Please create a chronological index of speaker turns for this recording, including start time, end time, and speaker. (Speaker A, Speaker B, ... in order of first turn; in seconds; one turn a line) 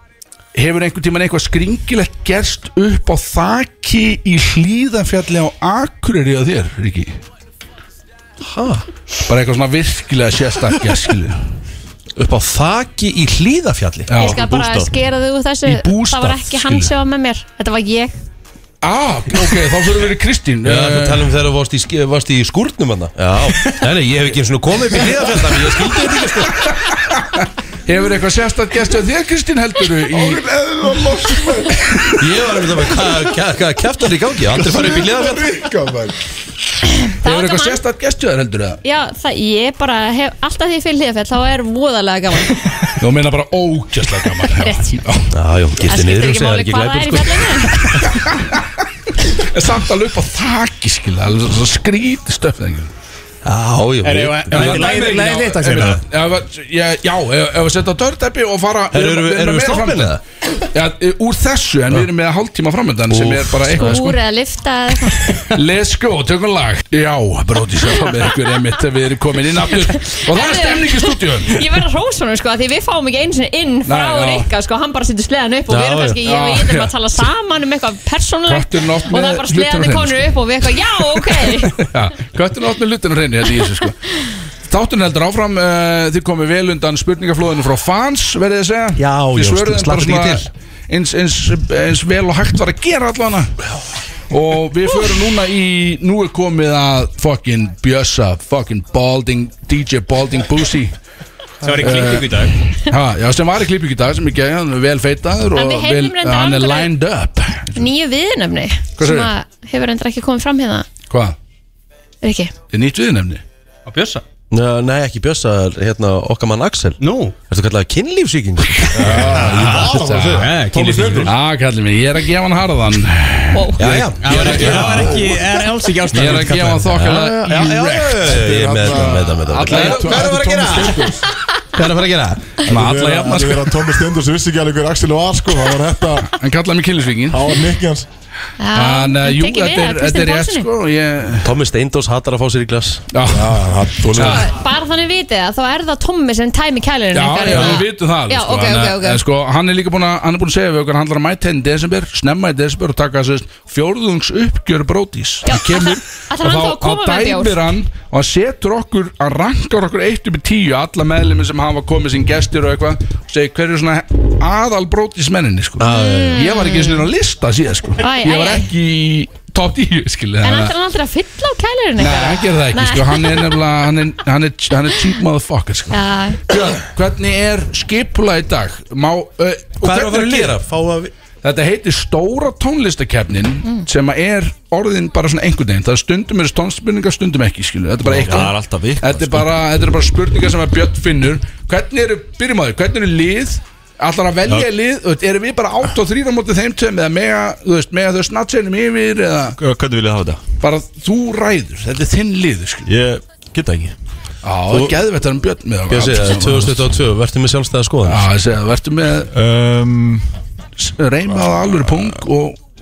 Speaker A: 0.5-7.1
Speaker B: 8.4-8.9
Speaker A: 9.3-11.4
Speaker B: 12.2-14.4
Speaker A: 14.1-14.4
Speaker C: 14.2-18.2
Speaker D: 14.4-14.8
Speaker A: 15.7-16.9
Speaker A: 18.8-21.3
Speaker B: 20.6-26.7
Speaker A: 26.6-30.4
Speaker E: 30.1-31.9
Speaker B: 32.2-35.5
Speaker E: 34.7-36.2
Speaker C: 37.0-37.8
Speaker A: 37.2-38.8
Speaker C: 38.8-42.9
Speaker A: 43.0-45.3
Speaker C: 44.6-45.0
Speaker B: 45.3-48.0
Speaker C: 45.9-47.9
Speaker A: 48.0-48.5
Speaker A: 49.3-52.9
Speaker B: 53.5-54.9
Speaker F: 54.0-56.0
Speaker A: 54.5-64.2
Speaker D: 54.6-55.1
Speaker D: 55.6-56.0
Speaker B: 58.9-60.2
Speaker B: 63.1-64.0
Speaker C: 63.8-65.4
Speaker A: 65.5-71.6
Speaker C: 69.9-81.8
Speaker A: 73.8-74.5
Speaker B: 75.7-76.2
Speaker A: 76.2-77.3
Speaker A: 78.5-80.3
Speaker A: 81.1-84.1
Speaker A: 84.7-93.5
Speaker B: 89.0-90.5
Speaker A: 94.3-101.0
Speaker F: 101.6-102.5
Speaker A: 101.8-107.9
Speaker C: 105.5-106.9
Speaker C: 107.8-110.9
Speaker A: 109.0-109.3
Speaker A: 111.1-111.4
Speaker C: 112.2-112.5
Speaker A: 112.7-113.4
Speaker F: 113.9-114.2
Speaker B: 114.5-121.2
Speaker F: 117.0-117.3
Speaker A: 118.8-120.5
Speaker E: 119.0-121.3
Speaker F: 120.3-121.3
Speaker A: 121.2-125.2
Speaker C: 123.5-123.8
Speaker B: 123.8-125.2
Speaker F: 124.2-126.9
Speaker E: 124.7-125.3
Speaker A: 126.1-130.6
Speaker B: 126.9-131.1
Speaker E: 128.3-131.3
Speaker B: 131.7-132.6
Speaker A: 132.7-133.8
Speaker E: 132.7-136.3
Speaker A: 136.3-137.6
Speaker E: 137.3-138.1
Speaker C: 138.6-140.7
Speaker A: 138.7-141.5
Speaker B: 141.4-143.1
Speaker A: 143.1-144.5
Speaker E: 143.3-144.4
Speaker C: 144.3-149.2
Speaker A: 147.1-170.7
Speaker B: 147.5-147.8
Speaker C: 155.4-157.7
Speaker B: 165.8-166.4
Speaker C: 165.9-167.1
Speaker C: 168.0-168.7
Speaker C: 170.4-173.4
Speaker A: 172.0-180.6
Speaker C: 175.9-176.4
Speaker B: 179.8-181.1
Speaker A: 181.4-199.6
Speaker D: 188.0-189.5
Speaker D: 199.6-200.4
Speaker A: 200.6-202.9
Speaker D: 202.9-203.9
Speaker A: 204.4-207.0
Speaker B: 204.7-205.0
Speaker B: 205.9-208.3
Speaker A: 208.1-209.3
Speaker D: 209.3-210.3
Speaker A: 210.8-212.6